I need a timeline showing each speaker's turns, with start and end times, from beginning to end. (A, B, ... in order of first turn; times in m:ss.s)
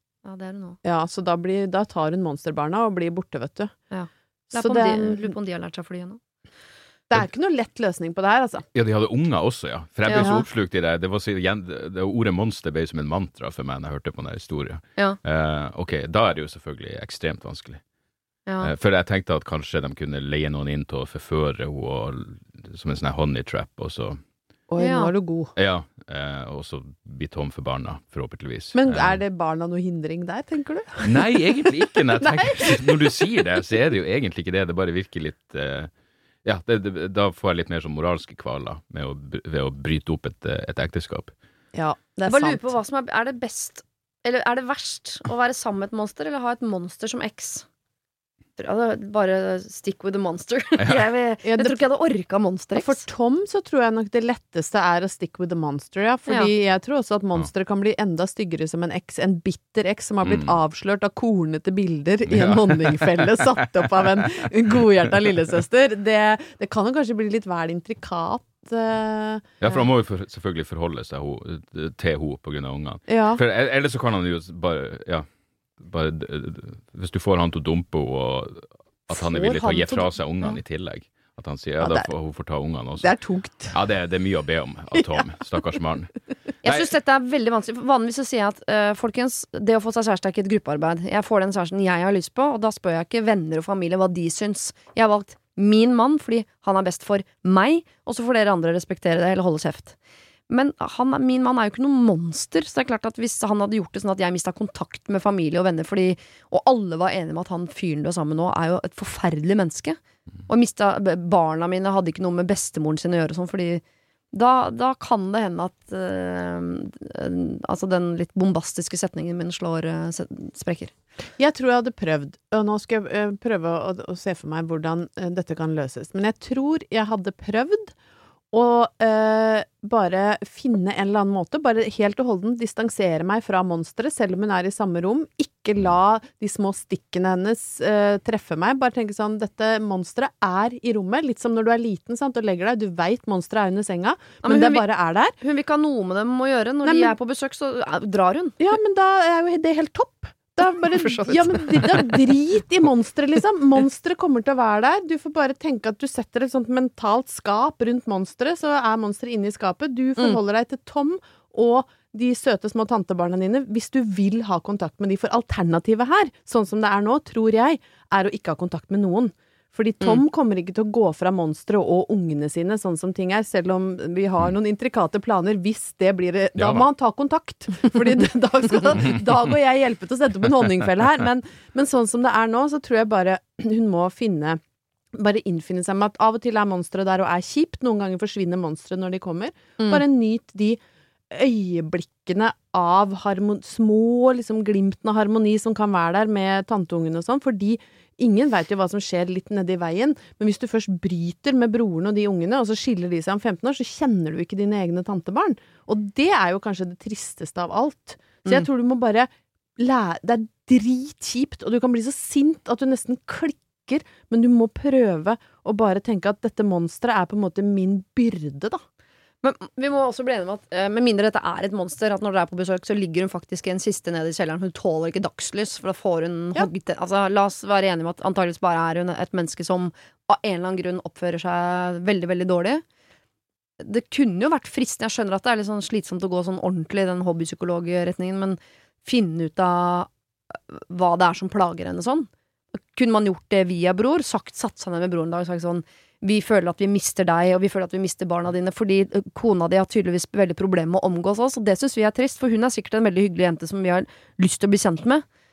0:00.2-0:00.8 A
0:00.8-0:03.7 B
0:03.9-0:06.2 A
0:04.5-0:05.3 B
0:07.1-0:08.6 B
0:08.7-0:17.8 C
0:10.1-0:10.3 A
0:10.2-0:10.4 B
0:18.5-0:18.7 A
0:18.6-0:24.2 C
0:24.7-0:25.5 B
0:24.8-0:25.1 A
0:25.6-0:29.2 C
0:28.7-0:31.4 B
0:31.0-0:35.9 C
0:32.2-0:33.1 B
0:36.4-0:41.3 C
0:41.7-0:42.7 B
0:42.3-0:47.6 A
0:48.6-0:53.0 A
0:51.4-0:51.8 B
0:52.8-1:09.8 B
1:00.2-1:00.6 C
1:02.3-1:03.5 C
1:09.6-1:15.2 C
1:13.1-1:13.4 B
1:15.8-1:23.1 C
1:19.3-1:20.1 A
1:21.8-1:22.1 B
1:23.0-1:23.7 B
1:23.7-1:26.1 C
1:26.6-1:40.0 A
1:40.5-1:53.8 A
1:54.3-2:00.9 A
2:01.4-2:07.9 B
2:08.5-2:25.4 B
2:24.4-2:24.8 A
2:25.4-2:28.6 A
2:26.8-2:27.1 B
2:28.6-3:04.6 B
2:30.6-2:32.2 A
2:56.6-2:56.8 C
3:05.1-3:10.8 B
3:11.3-3:38.8 B
3:39.4-3:52.8 A
3:53.8-4:00.1 A
4:00.7-4:02.3 A
4:02.9-4:15.2 A